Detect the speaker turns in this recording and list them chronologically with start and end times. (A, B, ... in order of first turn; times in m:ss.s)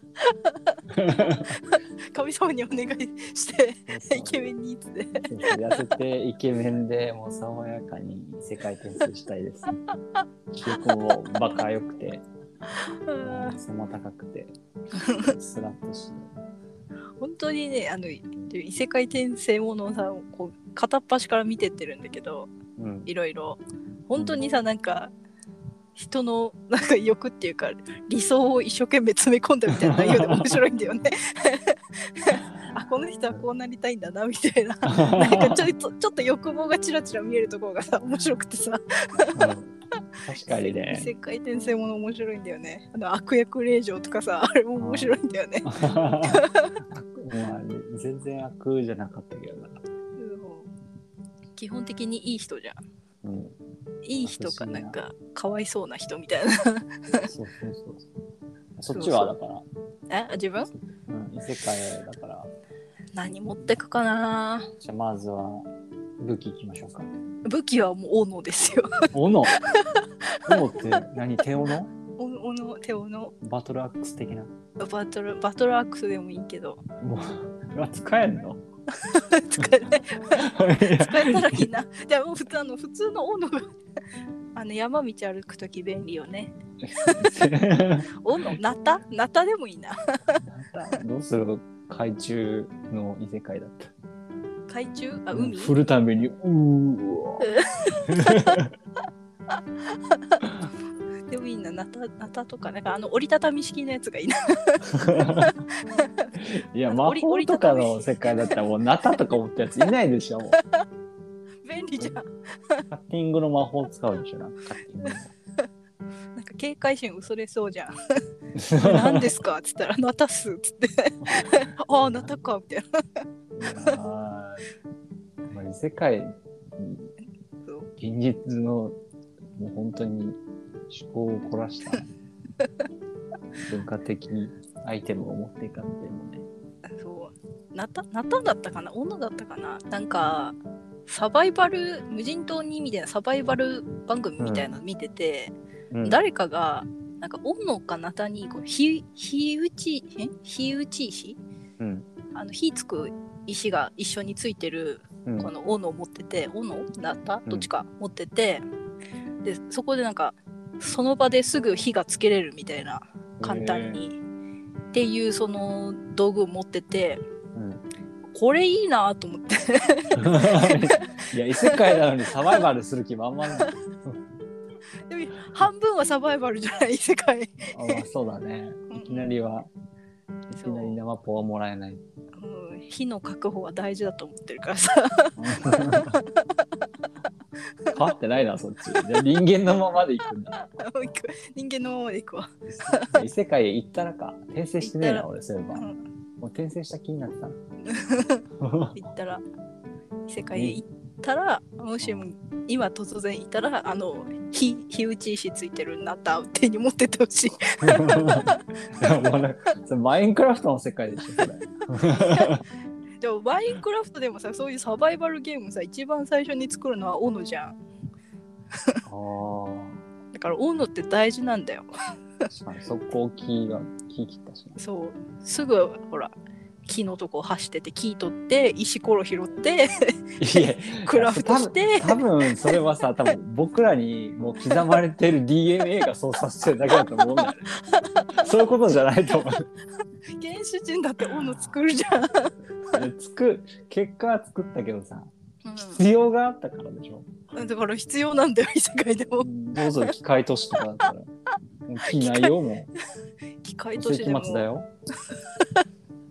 0:00.2-0:05.8 A
0:01.0-0:01.5 B
0:03.9-0:04.5 B
0:05.2-0:09.7 B
0:10.6-0:12.2 B
0:12.7-0:13.6 A
0:13.2-0:14.6 B
0:15.0-0:15.3 A
0:15.2-0:16.3 B
0:17.2-0:22.5 A
0:22.8-0:23.1 B
0:23.1-0:25.1 A
0:24.2-0:24.4 B
0:26.0-0:39.3 A
0:29.8-0:30.6 B
0:34.9-0:35.7 B
0:39.3-0:39.7 B
0:40.3-0:41.1 B
0:40.5-0:46.8 A
0:44.8-0:49.8 B
0:50.2-0:50.7 A
0:51.6-0:52.8 A
0:53.2-0:53.6 B
0:54.0-0:57.3 A
0:54.2-0:55.0 B
0:57.3-0:58.1 B
0:58.8-0:59.6 B
0:59.0-0:59.3 A
1:00.1-1:00.7 A
1:01.1-1:02.5 B
1:03.2-1:04.7 A
1:04.8-1:05.7 B
1:06.2-1:07.1 B
1:07.5-1:11.0 A
1:09.1-1:09.6 B
1:10.5-1:11.9 B
1:12.2-1:13.3 A
1:13.4-1:14.5 B
1:14.8-1:16.8 A
1:17.0-1:18.6 B
1:19.0-1:23.8 A
1:20.3-1:21.7 B
1:24.6-1:27.3 A
1:27.0-1:28.1 B
1:28.2-1:30.4 A
1:30.4-1:33.9 B
1:34.7-1:35.7 A
1:35.3-1:37.5 B
1:37.4-1:38.6 A
1:38.1-1:38.7 B
1:39.8-1:40.6 A
1:41.3-1:46.3 A
1:44.9-1:45.5 B
1:46.4-1:50.6 B
1:46.9-1:48.5 A
1:50.5-1:50.8 A
1:51.6-1:52.8 A
1:52.9-1:55.3 B
1:56.4-1:57.9 A
1:58.6-1:59.3 B
1:58.8-2:02.8 A
2:01.2-2:02.4 B
2:03.6-2:04.7 B
2:05.5-2:07.1 B
2:08.0-2:09.0 B
2:09.6-2:12.1 B
2:13.7-2:16.4 B
2:17.0-2:20.6 A
2:21.1-2:31.4 A
2:24.4-2:24.7 B
2:25.9-2:26.2 B
2:31.8-2:32.1 B
2:32.3-2:38.6 A
2:35.2-2:35.5 B
2:39.4-2:44.2 A
2:43.4-2:44.0 B
2:44.9-2:47.2 A
2:47.6-2:47.8 B
2:48.3-2:51.1 A
2:50.2-2:54.2 B
2:55.1-2:58.0 A
2:57.7-2:59.7 B
2:58.9-2:59.3 A
3:00.5-3:02.0 B
3:00.6-3:01.0 A
3:02.4-3:06.6 A
3:05.4-3:06.2 B
3:07.9-3:11.1 B
3:10.6-3:13.2 A
3:12.7-3:15.9 B
3:14.8-3:16.0 A
3:16.4-3:17.6 B
3:17.8-3:18.4 A
3:18.6-3:19.0 B
3:19.0-3:19.4 A
3:20.3-3:29.1 A
3:20.6-3:20.8 B
3:22.0-3:22.3 B
3:27.8-3:32.6 B
3:32.2-3:32.6 A
3:33.2-3:37.8 A
3:39.1-3:40.0 B
3:40.3-3:41.9 A
3:42.5-3:44.8 B
3:44.8-3:46.3 A
3:46.9-3:52.8 A
3:50.4-3:57.7 B
3:56.9-3:58.4 A
3:58.4-3:59.7 B
4:00.4-4:02.6 A
4:01.3-4:01.8 B
4:02.9-4:07.3 B
4:05.6-4:06.0 A
4:07.5-4:10.1 A
4:09.4-4:11.3 B
4:11.9-4:12.9 B
4:12.0-4:12.6 A
4:13.6-4:14.7 A
4:14.0-4:14.9 B
4:15.3-4:15.8 A